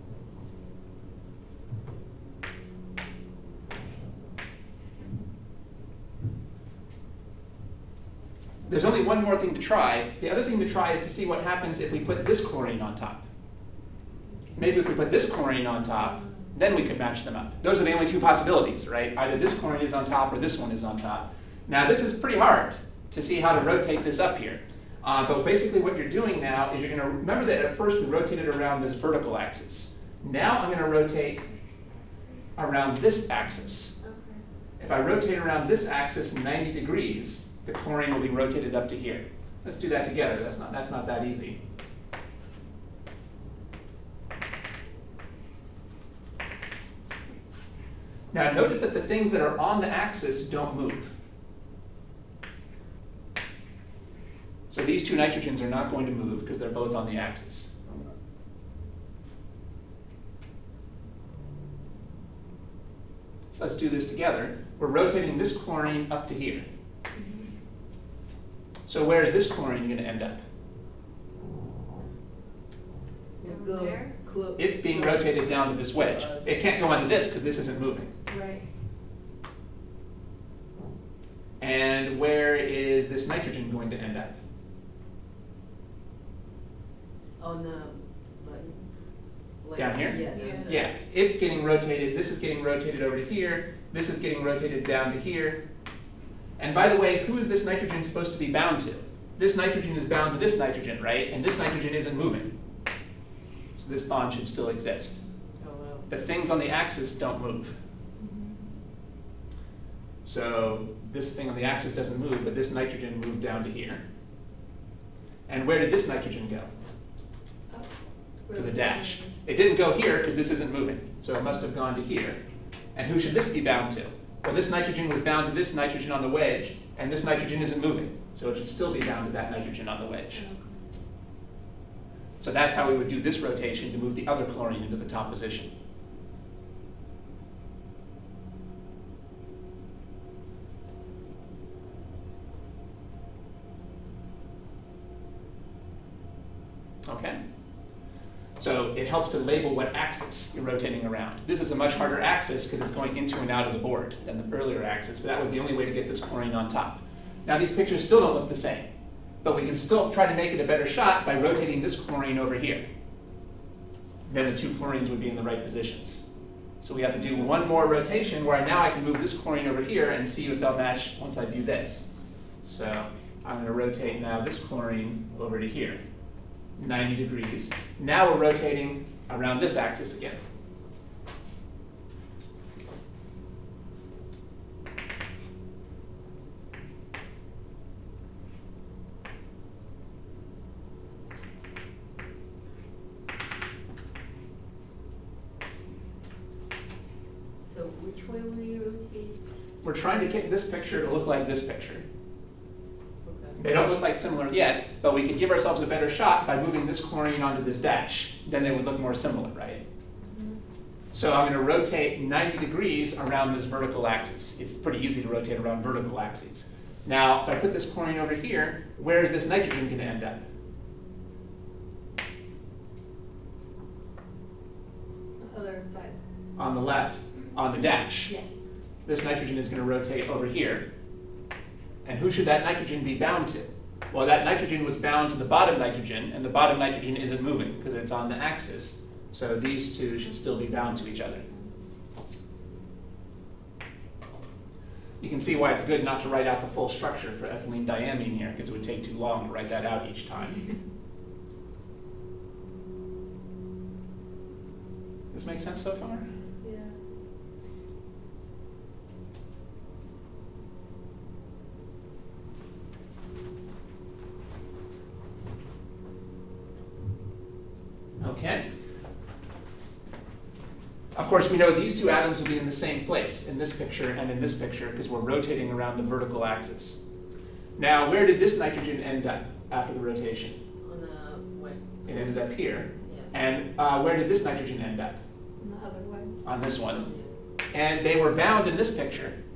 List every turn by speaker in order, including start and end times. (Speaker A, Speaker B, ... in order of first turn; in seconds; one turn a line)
Speaker A: 8.7-13.2
Speaker A: 14.6-31.4
Speaker B: 31.9-32.3
Speaker A: 32.5-34.0
Speaker B: 34.0-34.4
Speaker A: 34.8-41.6
Speaker A: 48.3-51.1
Speaker A: 54.7-58.0
Speaker A: 63.5-66.7
Speaker B: 67.1-67.5
Speaker A: 68.9-70.4
Speaker C: 73.4-76.6
Speaker B: 73.4-74.2
Speaker A: 74.6-78.1
Speaker B: 78.3-78.7
Speaker A: 81.6-84.4
Speaker C: 87.4-90.9
Speaker A: 89.8-95.7
Speaker B: 90.3-90.8
Speaker A: 96.6-102.5
Speaker A: 103.8-105.3
Speaker C: 105.6-106.1
Speaker A: 106.1-107.8
Speaker B: 108.2-108.7
Speaker A: 110.2-114.0
Speaker A: 115.5-116.7
Speaker B: 117.7-119.4
Speaker A: 118.5-122.4
Speaker A: 123.0-130.5
Speaker B: 130.3-130.8
Speaker A: 132.4-135.7
Speaker A: 147.1-147.4
Speaker A: 148.6-158.9
Speaker A: 159.4-162.9
Speaker A: 164.3-166.2
Speaker A: 166.8-172.1
Speaker B: 167.1-168.0
Speaker A: 172.6-176.0
Speaker A: 176.8-180.5
Speaker C: 197.7-199.6
Speaker A: 199.8-202.1
Speaker C: 203.2-203.6
Speaker A: 203.6-209.8
Speaker A: 211.1-220.5
Speaker B: 225.4-226.2
Speaker A: 226.6-228.3
Speaker A: 229.1-230.9
Speaker A: 232.1-241.4
Speaker B: 240.4-241.7
Speaker A: 245.2-250.8
Speaker A: 255.3-256.3
Speaker C: 256.6-257.0
Speaker A: 268.2-268.7
Speaker A: 271.1-277.0
Speaker A: 277.8-280.6
Speaker C: 280.8-282.3
Speaker A: 282.1-285.2
Speaker C: 283.0-283.4
Speaker B: 285.6-286.5
Speaker A: 286.4-287.1
Speaker C: 286.8-287.4
Speaker A: 287.7-289.4